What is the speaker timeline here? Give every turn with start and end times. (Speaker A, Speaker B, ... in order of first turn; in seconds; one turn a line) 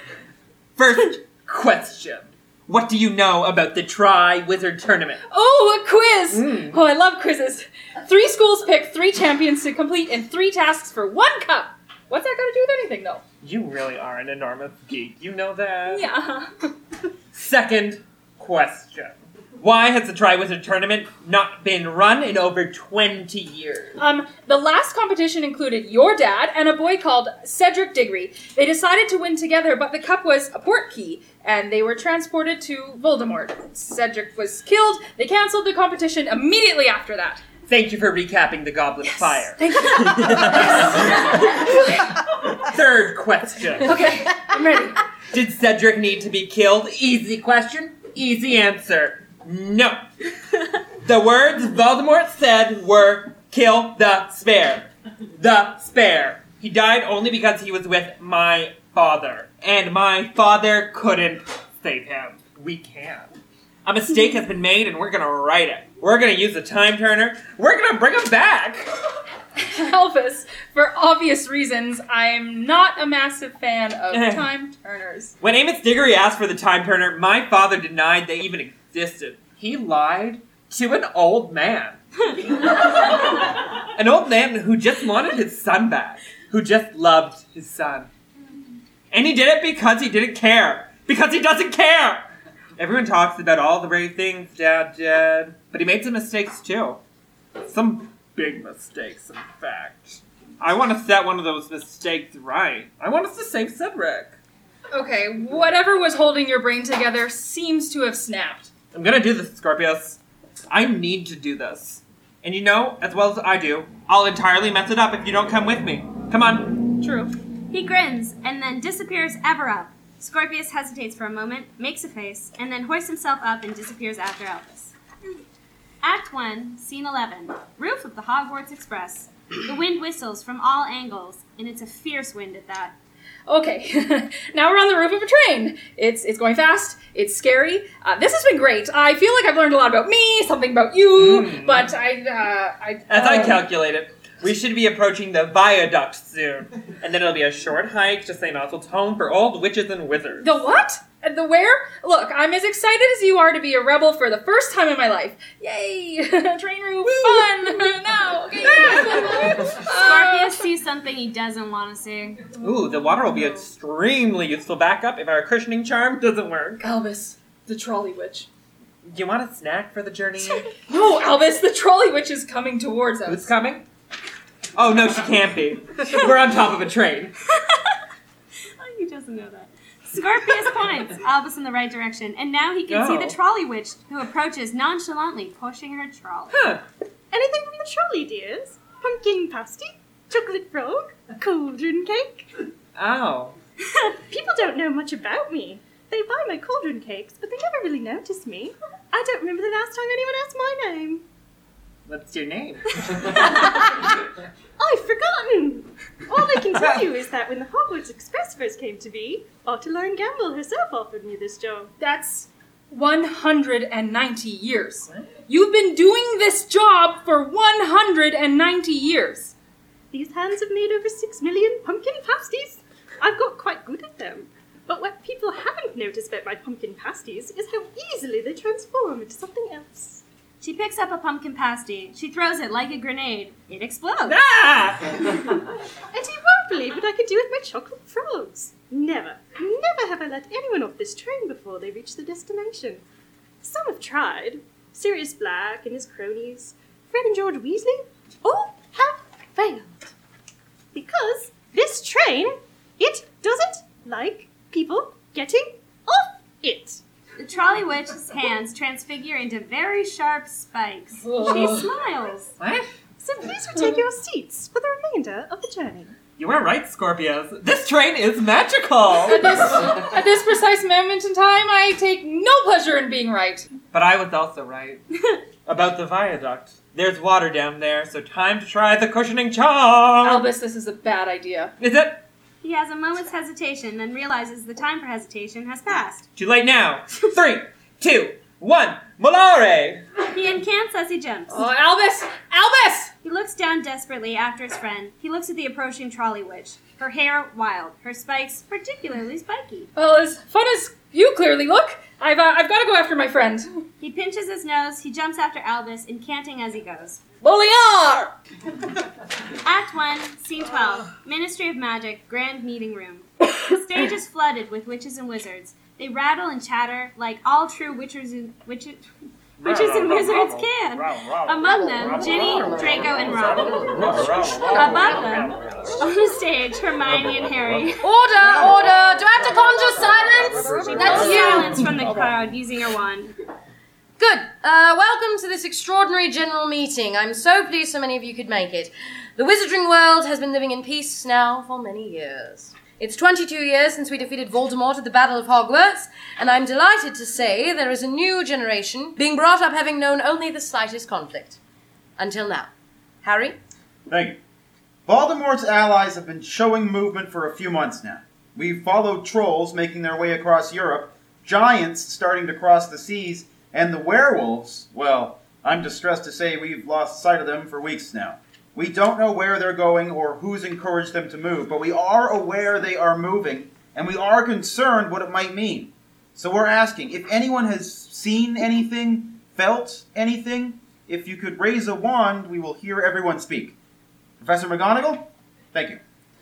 Speaker A: 0.8-5.2
Speaker B: 5.2-13.2
Speaker A: 6.3-6.8
Speaker A: 13.4-16.1
Speaker B: 15.9-16.7
Speaker A: 17.3-24.0
Speaker B: 24.0-37.4
Speaker A: 37.7-41.7
Speaker B: 39.0-42.1
Speaker A: 42.5-44.0
Speaker B: 43.8-45.0
Speaker A: 45.3-50.0
Speaker A: 51.0-68.9
Speaker B: 69.6-75.3
Speaker A: 74.1-74.5
Speaker A: 75.4-88.1
Speaker A: 89.1-97.0
Speaker A: 97.6-104.4
Speaker B: 104.9-108.7
Speaker A: 108.9-117.0
Speaker B: 117.0-117.3
Speaker C: 117.7-124.9
Speaker C: 126.0-132.9
Speaker B: 133.5-143.6
Speaker A: 141.1-141.9
Speaker A: 143.1-150.6
Speaker B: 150.4-160.6
Speaker A: 157.0-157.8
Speaker A: 158.6-159.7
Speaker C: 159.9-162.6
Speaker A: 162.6-166.8
Speaker B: 166.8-168.5
Speaker A: 169.0-170.7
Speaker B: 170.8-173.5
Speaker A: 173.3-173.8
Speaker A: 174.7-177.3
Speaker C: 178.8-186.6
Speaker A: 182.9-183.4
Speaker A: 186.5-186.8
Speaker D: 187.3-192.5
Speaker A: 192.9-193.6
Speaker D: 194.3-201.2
Speaker A: 202.1-203.4
Speaker D: 203.2-203.8
Speaker D: 204.8-211.9
Speaker B: 212.0-219.5
Speaker D: 220.1-230.2
Speaker C: 230.6-234.4
Speaker A: 234.3-235.5
Speaker D: 236.1-243.0
Speaker D: 243.6-250.1
Speaker D: 250.9-257.0
Speaker C: 257.4-262.5
Speaker B: 261.2-261.9
Speaker A: 262.6-262.9
Speaker D: 263.2-266.1
Speaker A: 266.4-269.8
Speaker B: 269.2-273.6
Speaker A: 273.9-275.0
Speaker A: 275.6-280.5
Speaker B: 280.2-281.7
Speaker A: 281.8-282.2
Speaker C: 282.6-286.2
Speaker A: 286.4-290.0
Speaker C: 290.3-291.6
Speaker B: 291.5-293.1
Speaker C: 293.2-299.9
Speaker B: 299.9-303.8
Speaker C: 304.0-307.2
Speaker B: 307.4-308.3
Speaker C: 309.6-319.0
Speaker A: 319.6-321.6
Speaker C: 319.6-323.9
Speaker E: 321.7-323.1
Speaker A: 323.7-325.7
Speaker C: 324.7-328.1
Speaker E: 328.0-331.8
Speaker C: 330.9-333.3
Speaker E: 334.2-351.6
Speaker E: 352.2-352.7
Speaker E: 353.2-353.6
Speaker F: 354.1-354.4
Speaker F: 355.1-383.8
Speaker F: 384.4-386.0